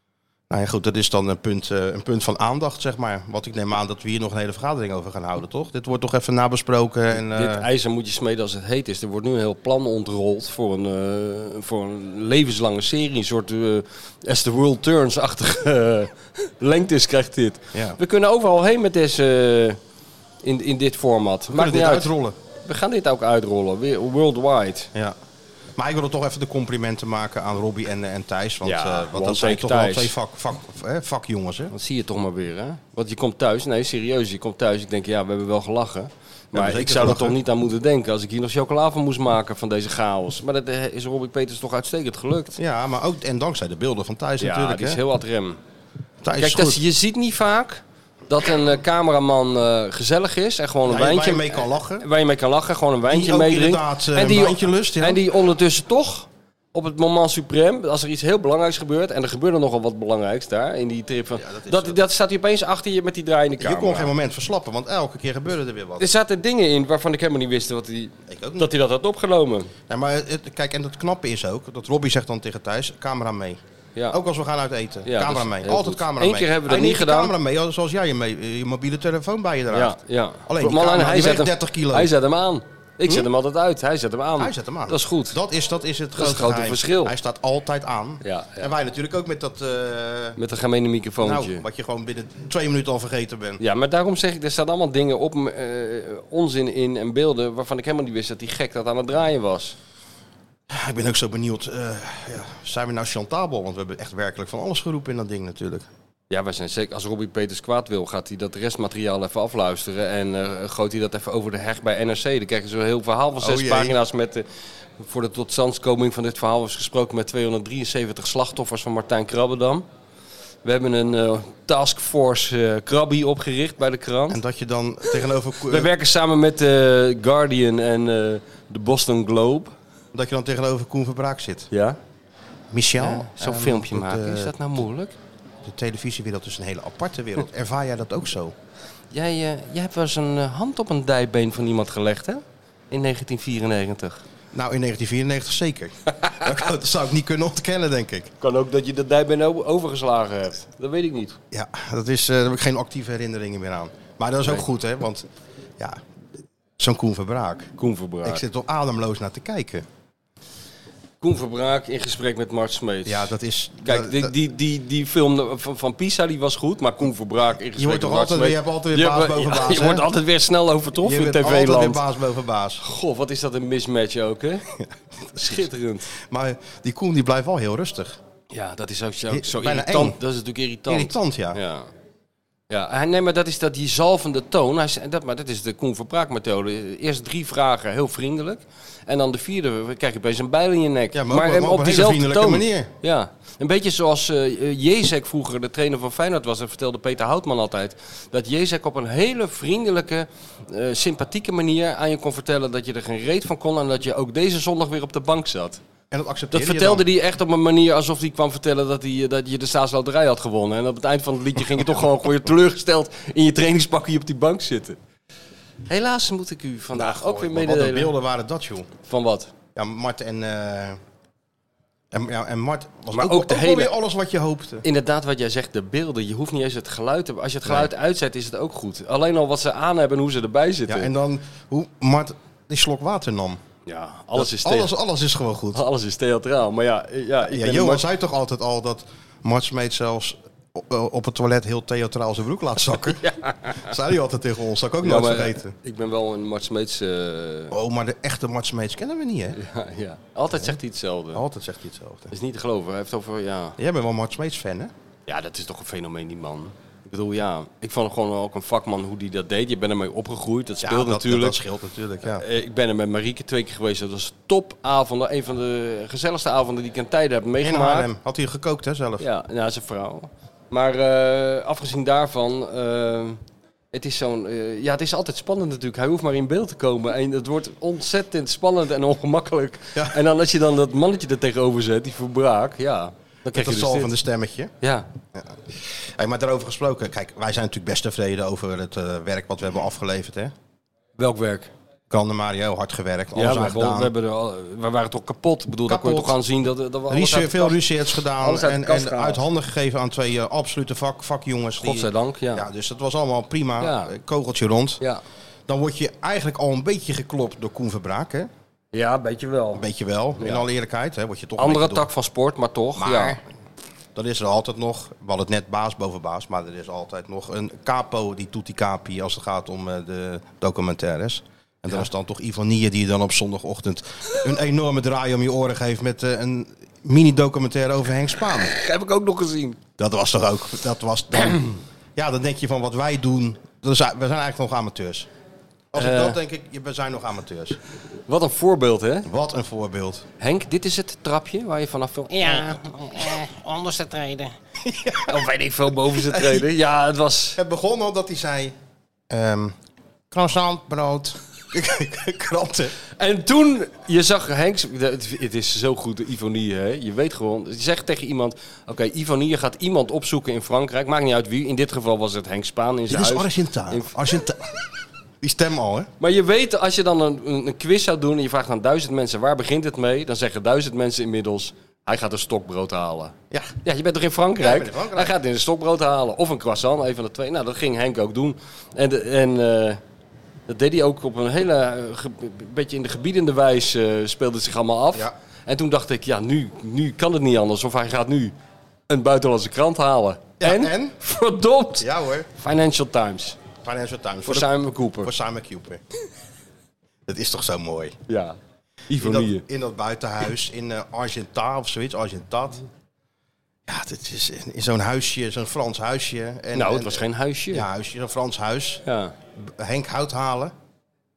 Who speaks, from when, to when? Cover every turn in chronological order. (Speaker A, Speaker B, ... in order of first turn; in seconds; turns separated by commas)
Speaker A: 0.5-7.7, Speaker B: 7.1-19.8, Speaker A: 17.7-18.0, Speaker B: 20.4-22.1, Speaker A: 21.5-22.4, Speaker B: 22.6-24.9, Speaker A: 25.8-31.7, Speaker B: 28.6-30.1, Speaker B: 31.7-42.5, Speaker A: 36.5-37.4, Speaker A: 42.6-45.0, Speaker B: 44.4-45.6, Speaker A: 46.2-46.8, Speaker B: 46.4-64.1, Speaker A: 50.9-52.0, Speaker A: 53.1-55.2, Speaker A: 61.4-62.0, Speaker A: 63.6-66.1, Speaker B: 66.0-69.7, Speaker A: 68.3-68.7, Speaker A: 69.9-82.1, Speaker B: 75.0-77.3, Speaker B: 79.7-85.3, Speaker A: 84.4-90.4, Speaker B: 86.2-87.1, Speaker B: 88.2-88.7, Speaker B: 90.4-91.6, Speaker A: 91.2-93.6, Speaker B: 93.6-99.8, Speaker A: 100.7-105.9, Speaker B: 106.3-114.4, Speaker A: 113.4-114.0, Speaker B: 115.0-119.8, Speaker B: 120.6-124.4, Speaker A: 124.3-125.9, Speaker B: 125.7-129.7, Speaker A: 130.1-131.7, Speaker B: 131.7-132.0, Speaker A: 132.7-134.5, Speaker B: 133.0-135.1, Speaker A: 135.6-138.5, Speaker B: 139.1-144.2, Speaker A: 144.5-148.3, Speaker B: 148.4-151.4, Speaker A: 151.5-155.3, Speaker A: 156.8-159.8, Speaker B: 157.8-158.4, Speaker B: 161.2-172.0, Speaker A: 163.0-164.3, Speaker A: 167.8-170.1, Speaker A: 171.0-172.8, Speaker B: 172.8-174.6, Speaker A: 174.8-178.2, Speaker B: 175.3-176.1, Speaker B: 178.5-181.9, Speaker A: 179.3-180.2, Speaker A: 180.9-181.6, Speaker B: 182.7-205.8, Speaker A: 191.1-192.9, Speaker A: 206.1-207.1, Speaker B: 206.5-215.0, Speaker B: 215.9-218.1, Speaker A: 216.9-218.9, Speaker B: 219.0-219.5, Speaker A: 219.7-221.0, Speaker A: 222.1-224.8, Speaker B: 223.1-223.9, Speaker B: 224.8-231.1, Speaker A: 227.6-227.9, Speaker A: 230.9-233.6, Speaker B: 233.8-234.9, Speaker A: 234.3-235.8, Speaker B: 235.7-238.0, Speaker A: 237.4-243.2, Speaker B: 243.2-243.8, Speaker A: 243.8-245.7, Speaker B: 245.0-247.7, Speaker A: 247.7-249.6, Speaker B: 249.6-251.4, Speaker A: 251.3-252.3, Speaker B: 252.3-253.8, Speaker A: 253.8-254.9, Speaker B: 255.3-261.6, Speaker A: 260.8-262.4, Speaker B: 262.2-268.1, Speaker A: 267.6-269.2, Speaker B: 269.2-273.4, Speaker B: 273.9-284.1, Speaker A: 283.5-284.7, Speaker B: 284.8-285.1, Speaker A: 285.3-290.5, Speaker B: 291.2-291.7, Speaker A: 292.1-294.1, Speaker B: 293.3-297.8, Speaker A: 295.9-296.4, Speaker A: 297.1-305.0, Speaker B: 298.4-299.4, Speaker B: 301.8-302.6, Speaker B: 303.8-304.1, Speaker A: 305.7-308.5, Speaker B: 308.9-309.8, Speaker A: 309.7-312.1, Speaker B: 310.4-310.6, Speaker B: 311.6-313.4, Speaker A: 313.0-313.4, Speaker A: 314.1-328.7, Speaker B: 328.6-329.8, Speaker A: 330.0-335.3, Speaker A: 335.9-337.8, Speaker B: 335.9-336.4, Speaker B: 338.3-339.3, Speaker A: 339.2-340.2, Speaker B: 340.4-344.5, Speaker A: 344.8-345.4, Speaker B: 345.3-347.6, Speaker A: 346.1-346.6, Speaker A: 347.6-348.7, Speaker A: 349.3-349.7, Speaker A: 350.3-352.9, Speaker B: 353.2-364.1, Speaker A: 363.1-364.8, Speaker A: 365.4-366.1, Speaker B: 366.2-380.0, Speaker A: 374.6-375.3, Speaker B: 380.7-388.5, Speaker B: 389.1-393.6, Speaker A: 390.6-391.2, Speaker A: 392.0-392.5, Speaker A: 393.8-396.0, Speaker B: 394.4-395.3, Speaker A: 397.3-398.1, Speaker B: 398.3-398.6, Speaker B: 399.1-399.6, Speaker A: 399.2-402.8, Speaker A: 403.9-409.0, Speaker B: 406.7-407.9, Speaker B: 409.1-409.3, Speaker A: 409.6-410.7